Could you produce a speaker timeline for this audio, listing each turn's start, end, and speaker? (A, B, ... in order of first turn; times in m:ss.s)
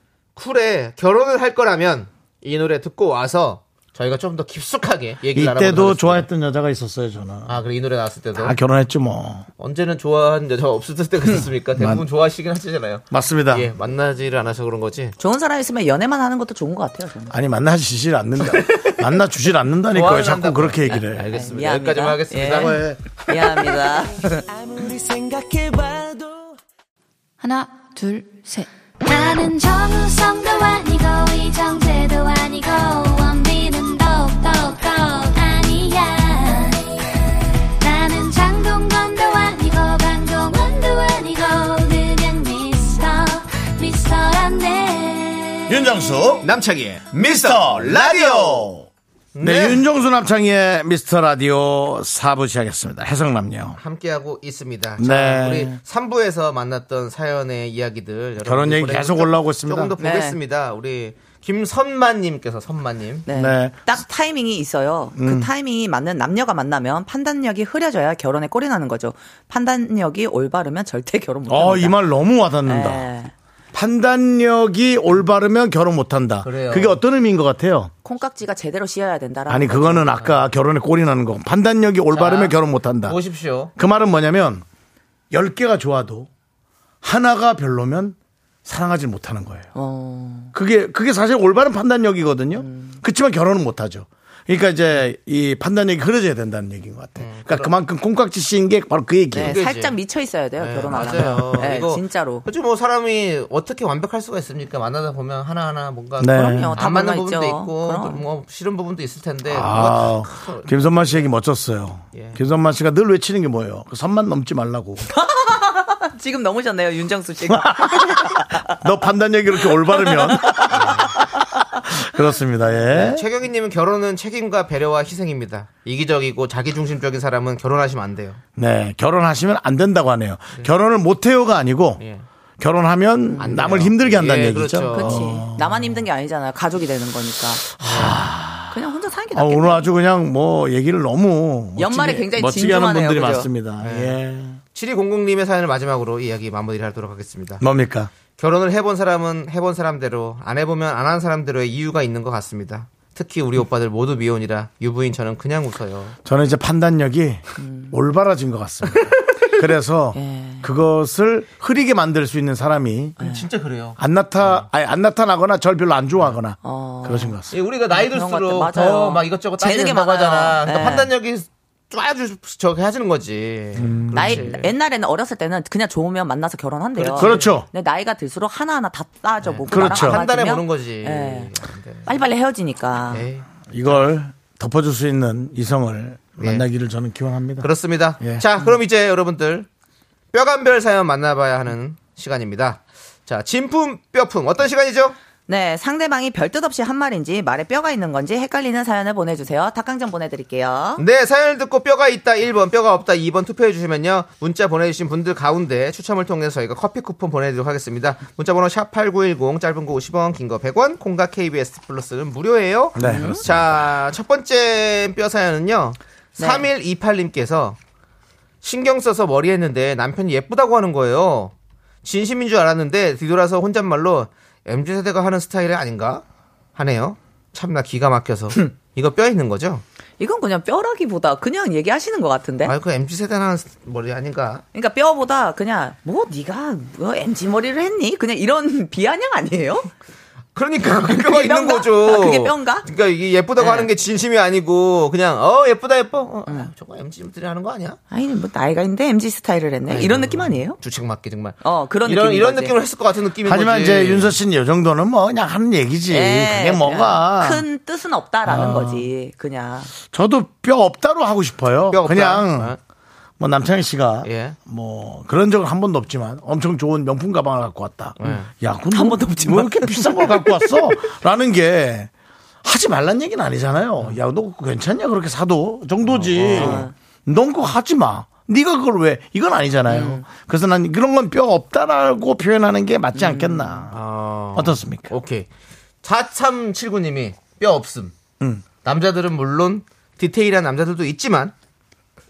0:00.4-0:06.3 A
0:05.3-0:07.6 B
0:07.5-0:08.6 A
0:08.4-0:09.5 B
0:09.6-0:15.2 A
0:11.8-0:12.0 B
0:13.1-0:13.7 B
0:15.2-0:17.4 C
0:17.3-0:21.2 B
0:18.4-0:19.1 A
0:19.9-0:22.9 A
0:21.2-0:24.4 C
0:22.7-0:23.0 B
0:24.3-0:26.6 D
0:29.0-0:37.2 E
0:37.8-0:45.8 E
0:45.7-0:46.5 B
0:46.4-0:48.7 A
0:47.2-0:48.9 B
0:49.4-0:49.8 A
0:49.4-0:53.8 B
0:53.8-1:03.3 A
0:55.0-0:55.8 B
0:58.4-0:59.9 B
1:00.0-1:00.4 C
1:03.3-1:12.0 C
1:03.3-1:03.9 B
1:05.2-1:05.5 B
1:11.5-1:13.1 B
1:12.6-1:13.3 C
1:13.7-1:17.9 B
1:16.4-1:17.0 A
1:18.0-1:20.2 C
1:19.5-1:23.2 B
1:20.1-1:20.4 A
1:22.1-1:23.7 A
1:23.8-1:24.6 B
1:25.3-1:26.3 B
1:27.0-1:29.7 B
1:29.8-1:30.5 C
1:30.5-1:39.6 B
1:32.6-1:33.0 C
1:37.2-1:37.7 A
1:39.3-1:42.5 C
1:39.4-1:40.0 A
1:40.6-1:51.2 A
1:46.2-1:46.8 B
1:46.3-1:48.2 C
1:49.5-1:55.1 B
1:55.1-1:58.8 C
1:57.5-2:03.2 B
1:59.5-2:00.9 C
2:00.7-2:01.1 A
2:02.9-2:08.4 A
2:08.6-2:12.0 B
2:12.0-2:12.3 A
2:12.6-2:16.0 B
2:13.3-2:13.6 C
2:13.4-2:15.4 A
2:14.9-2:17.7 C
2:17.8-2:18.3 A
2:17.8-2:18.8 B
2:18.7-2:19.9 C
2:19.3-2:24.6 B
2:21.8-2:23.5 C
2:23.8-2:24.2 A
2:24.7-2:27.6 A
2:27.6-2:28.1 B
2:28.4-2:36.2 A
2:36.2-2:43.2 B
2:37.6-2:38.0 C
2:40.1-2:40.7 C
2:43.2-2:44.7 A
2:43.2-2:43.5 C
2:44.0-2:47.5 B
2:46.6-2:51.1 C
2:47.5-2:54.7 A
2:53.8-2:54.5 B
2:54.1-3:01.5 C
2:57.0-2:57.6 A
2:57.2-2:57.7 B
2:59.4-3:02.1 A
2:59.7-3:00.2 B
3:02.1-3:03.3 C
3:03.1-3:04.0 A
3:03.7-3:07.7 B
3:06.4-3:06.7 A
3:07.6-3:09.7 A
3:10.3-3:15.2 A
3:15.5-3:21.0 C
3:21.0-3:37.8 A
3:33.0-3:33.6 B
3:33.0-3:33.4 C
3:36.4-3:36.7 C
3:38.6-3:41.5 A
3:42.0-3:46.2 A
3:46.8-3:49.8 A
3:50.2-3:52.7 C
3:52.6-3:54.6 A
3:54.7-3:59.9 C
4:00.6-4:08.0 A
4:01.0-4:02.9 C
4:03.6-4:03.9 C
4:08.1-4:10.8 C
4:09.9-4:14.4 A
4:11.6-4:12.8 C
4:13.4-4:17.6 B
4:16.1-4:19.9 C
4:18.4-4:19.1 B
4:20.0-4:22.8 B
4:21.9-4:22.8 A
4:23.4-4:32.1 B
4:24.2-4:24.6 A
4:28.2-4:28.5 A
4:28.9-4:30.9 C
4:32.6-4:44.0 B
4:36.1-4:36.9 A
4:36.4-4:36.9 C
4:39.9-4:40.3 C
4:43.1-4:43.9 C
4:43.9-4:45.5 A
4:44.6-4:45.1 B
4:46.0-4:48.1 A
4:48.8-4:51.5 A